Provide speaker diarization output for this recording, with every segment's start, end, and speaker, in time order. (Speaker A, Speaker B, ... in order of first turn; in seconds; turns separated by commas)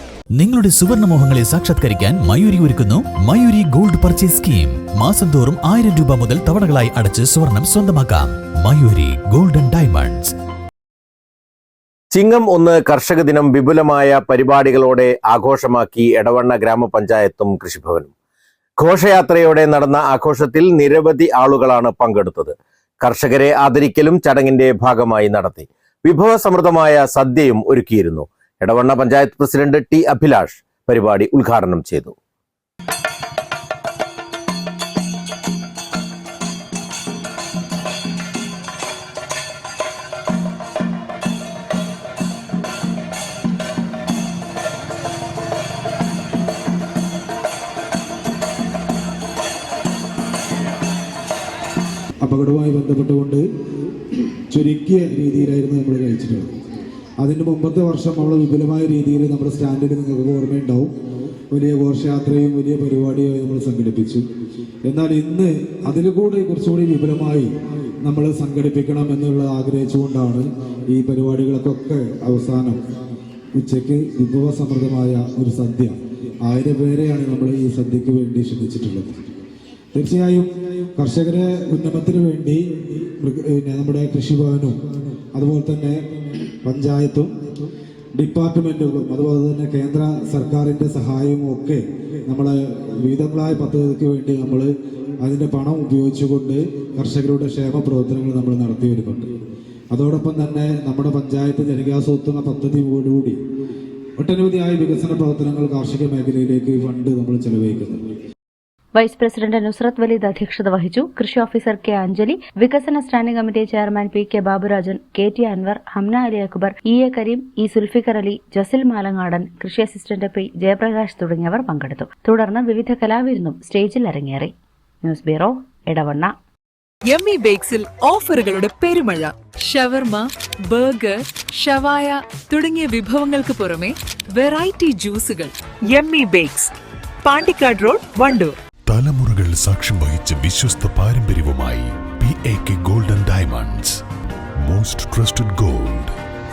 Speaker A: 0.3-10.3, Speaker B: 12.1-18.1, Speaker B: 18.8-32.1, Speaker C: 52.2-53.5, Speaker C: 54.5-56.5, Speaker C: 57.2-60.9, Speaker C: 61.5-64.2, Speaker C: 64.8-67.5, Speaker C: 68.0-72.8, Speaker C: 73.5-79.2, Speaker C: 79.9-84.8, Speaker C: 85.3-86.0, Speaker C: 86.6-87.3, Speaker C: 88.2-99.3, Speaker C: 99.9-103.4, Speaker C: 104.2-108.0, Speaker D: 108.9-126.3, Speaker E: 127.1-138.5, Speaker F: 138.9-144.0, Speaker F: 144.6-146.1